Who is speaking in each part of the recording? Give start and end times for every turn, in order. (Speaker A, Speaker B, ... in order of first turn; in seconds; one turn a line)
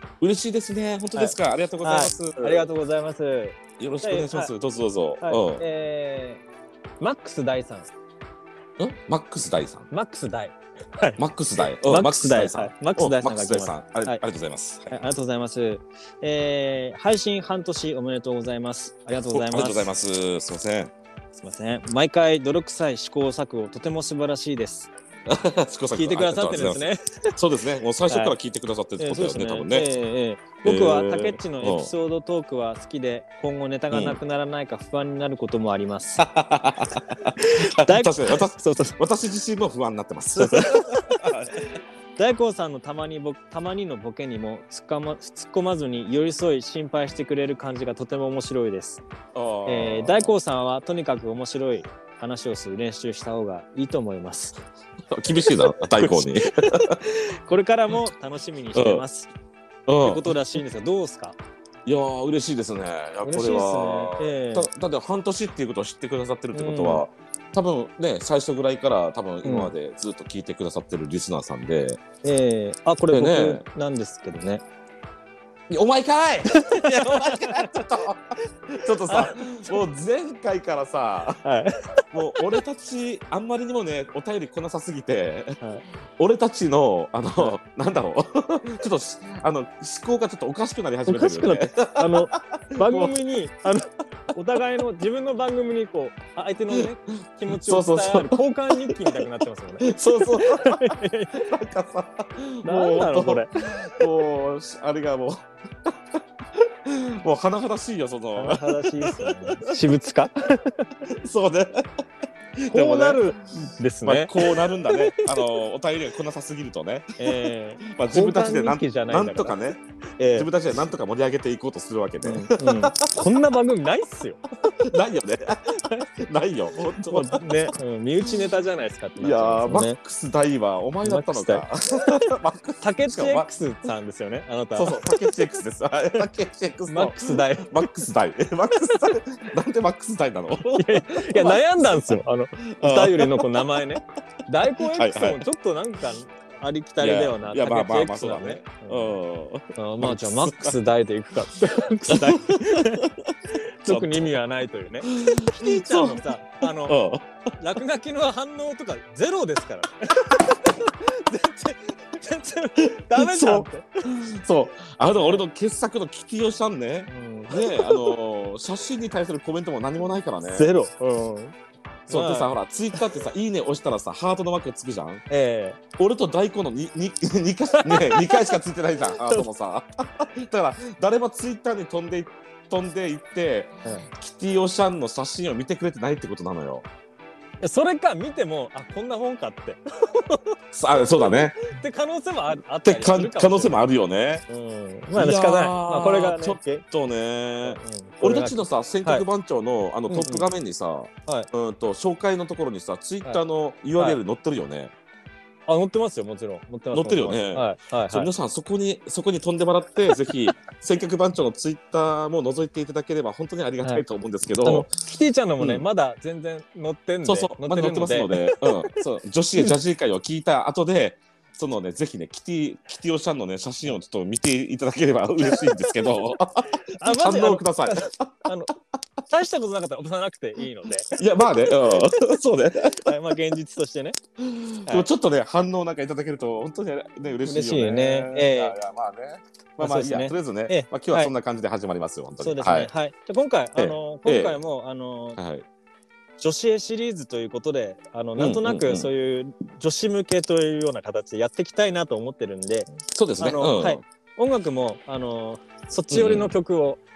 Speaker A: 0.2-2.7
Speaker B: 1.1-4.5
Speaker A: 3.8-5.6
Speaker B: 5.2-6.4
Speaker B: 7.0-7.9
Speaker A: 8.8-9.9
Speaker B: 9.9-11.2
Speaker A: 11.2-14.9
Speaker B: 11.8-14.2
Speaker B: 14.9-19.9
Speaker A: 19.3-20.9
Speaker B: 21.4-24.9
Speaker A: 25.3-29.9
Speaker B: 25.9-27.3
Speaker B: 28.1-28.3
Speaker B: 29.0-36.2
Speaker A: 30.6-31.9
Speaker A: 33.9-34.2
Speaker A: 36.2-41.6
Speaker B: 37.2-39.0
Speaker B: 40.4-41.2
Speaker B: 42.2-49.0
Speaker A: 49.3-50.3
Speaker B: 49.6-54.6
Speaker A: 55.1-57.0
Speaker B: 55.7-59.3
Speaker A: 58.8-59.0
Speaker A: 59.9-60.3
Speaker B: 60.0-61.4
Speaker A: 61.9-72.0
Speaker B: 63.2-64.7
Speaker B: 66.5-67.0
Speaker B: 69.4-69.7
Speaker B: 72.2-74.6
Speaker A: 73.1-73.6
Speaker A: 75.7-81.4
Speaker B: 76.5-77.8
Speaker B: 79.1-79.7
Speaker B: 81.4-82.0
Speaker A: 82.1-85.6
Speaker A: 86.2-93.1
Speaker B: 91.1-101.5
Speaker A: 97.5-99.2
Speaker A: 99.8-109.7
Speaker B: 102.7-104.0
Speaker B: 108.4-111.0
Speaker A: 111.1-112.0
Speaker A: 112.6-113.3
Speaker B: 112.7-115.4
Speaker A: 114.0-119.8
Speaker B: 117.2-119.6
Speaker B: 120.2-120.5
Speaker A: 120.3-123.2
Speaker B: 122.2-124.4
Speaker A: 124.7-127.7
Speaker B: 125.8-126.1
Speaker B: 127.1-130.0
Speaker A: 129.2-133.5
Speaker B: 131.0-132.2
Speaker B: 132.8-135.3
Speaker A: 134.8-141.6
Speaker B: 136.9-137.8
Speaker B: 140.8-149.2
Speaker A: 142.7-143.7
Speaker A: 144.8-145.4
Speaker A: 147.0-150.8
Speaker B: 149.8-157.0
Speaker A: 152.1-153.3
Speaker A: 153.9-154.3
Speaker A: 155.1-156.2
Speaker A: 156.8-157.3
Speaker B: 157.6-164.1
Speaker A: 162.8-170.7
Speaker B: 165.2-165.4
Speaker B: 167.1-168.1
Speaker B: 170.5-171.6
Speaker B: 172.1-173.0
Speaker A: 172.1-175.2
Speaker B: 175.3-175.8
Speaker A: 176.0-186.9
Speaker B: 177.8-178.6
Speaker B: 187.6-190.4
Speaker A: 190.7-191.6
Speaker B: 190.9-193.8
Speaker A: 192.8-194.4
Speaker B: 194.5-196.8
Speaker A: 195.1-204.9
Speaker B: 197.6-199.2
Speaker B: 200.1-200.4
Speaker B: 205.7-208.3
Speaker A: 206.9-214.9
Speaker B: 214.6-219.0
Speaker A: 215.6-215.8
Speaker A: 217.2-228.5
Speaker B: 225.4-225.9
Speaker B: 226.9-228.7
Speaker B: 229.3-232.1
Speaker A: 231.1-233.1
Speaker B: 233.0-234.2
Speaker A: 234.4-242.9
Speaker B: 237.4-238.8
Speaker B: 239.8-241.3
Speaker B: 242.4-245.4
Speaker A: 243.8-244.6
Speaker A: 245.4-245.7
Speaker B: 246.4-257.0
Speaker A: 248.4-249.1
Speaker A: 253.1-254.0
Speaker A: 256.1-256.6